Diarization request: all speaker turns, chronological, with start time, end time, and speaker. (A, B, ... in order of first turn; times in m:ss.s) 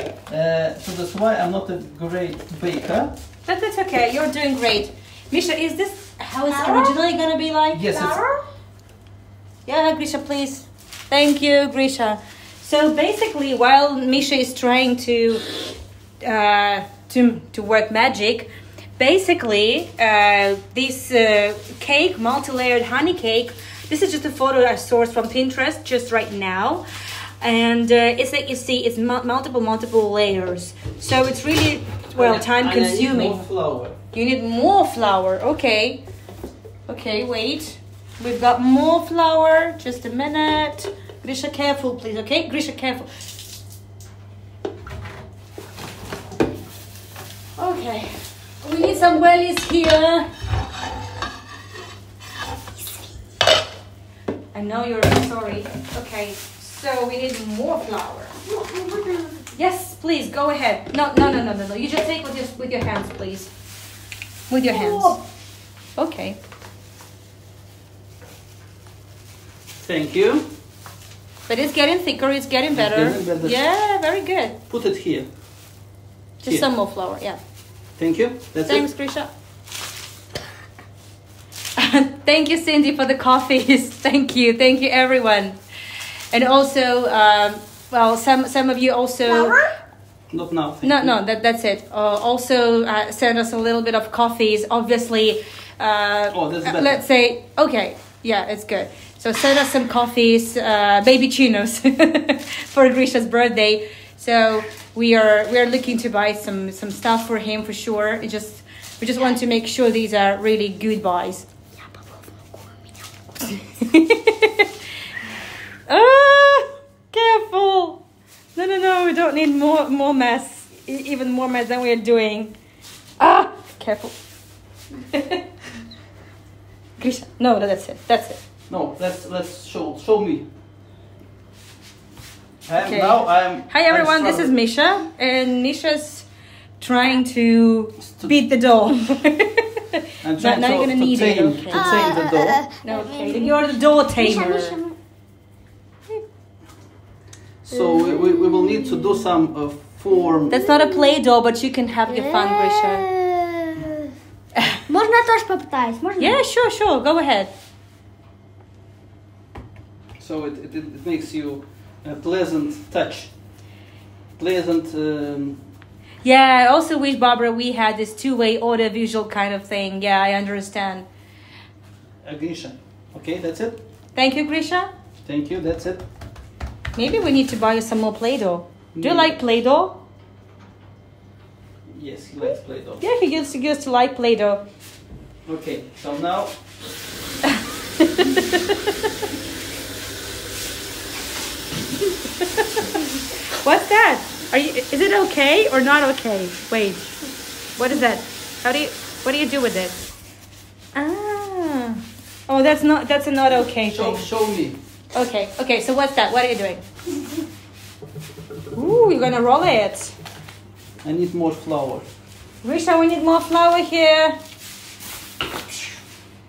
0:00.3-0:03.1 A
0:03.4-0:08.4 B
0:06.5-0:07.0 C
0:07.7-0:08.2 A
0:09.6-0:15.4 B
0:16.2-0:26.8 B
0:27.4-0:33.4 B
0:32.1-0:34.0 A
0:34.1-0:36.0 B
0:36.9-0:43.1 B
0:47.6-0:50.3 B
0:54.5-0:58.3 B
0:58.4-0:59.5 C
0:59.5-1:03.5 B
1:04.5-1:05.2 B
1:04.6-1:05.2 C
1:06.0-1:06.4 B
1:09.8-1:10.5 A
1:11.5-1:14.6 B
1:12.7-1:13.6 A
1:14.7-1:15.3 A
1:16.4-1:17.4 B
1:18.0-1:18.8 A
1:18.7-1:19.3 B
1:21.8-1:25.6 B
1:26.3-1:29.5 B
1:29.3-1:29.8 C
1:30.3-1:31.2 A
1:30.8-1:51.5 B
1:36.3-1:37.0 A
1:51.8-1:52.9 C
1:53.4-1:54.7 B
1:55.9-1:58.0 B
1:58.6-2:02.5 B
2:03.2-2:04.1 B
2:05.1-2:05.4 B
2:07.0-2:08.4 B
2:08.7-2:10.5 A
2:12.7-2:14.5 A
2:12.8-2:16.3 B
2:16.8-2:22.1 B
2:18.0-2:18.3 A
2:20.2-2:22.6 A
2:21.7-2:25.0 C
2:22.8-2:24.8 B
2:27.7-2:30.6 A
2:27.7-2:29.2 C
2:30.2-2:31.1 C
2:30.5-2:33.0 B
2:32.1-2:34.1 C
2:34.9-2:36.4 C
2:36.2-2:37.5 B
2:40.2-2:43.3 A
2:44.4-2:45.6 A
2:46.2-2:51.1 B
2:52.2-2:53.8 A
2:54.1-2:54.9 B
2:55.2-2:56.0 A
2:57.0-3:00.0 B
2:58.9-2:59.3 A
3:01.9-3:03.0 A
3:03.0-3:04.6 B
3:05.4-3:06.5 A
3:07.5-3:08.9 B
3:12.4-3:17.0 B
3:17.8-3:20.0 B
3:20.9-3:24.2 B
3:23.5-3:24.8 A
3:25.1-3:26.8 B
3:28.7-3:30.1 B
3:31.0-3:32.0 A
3:32.6-3:34.4 B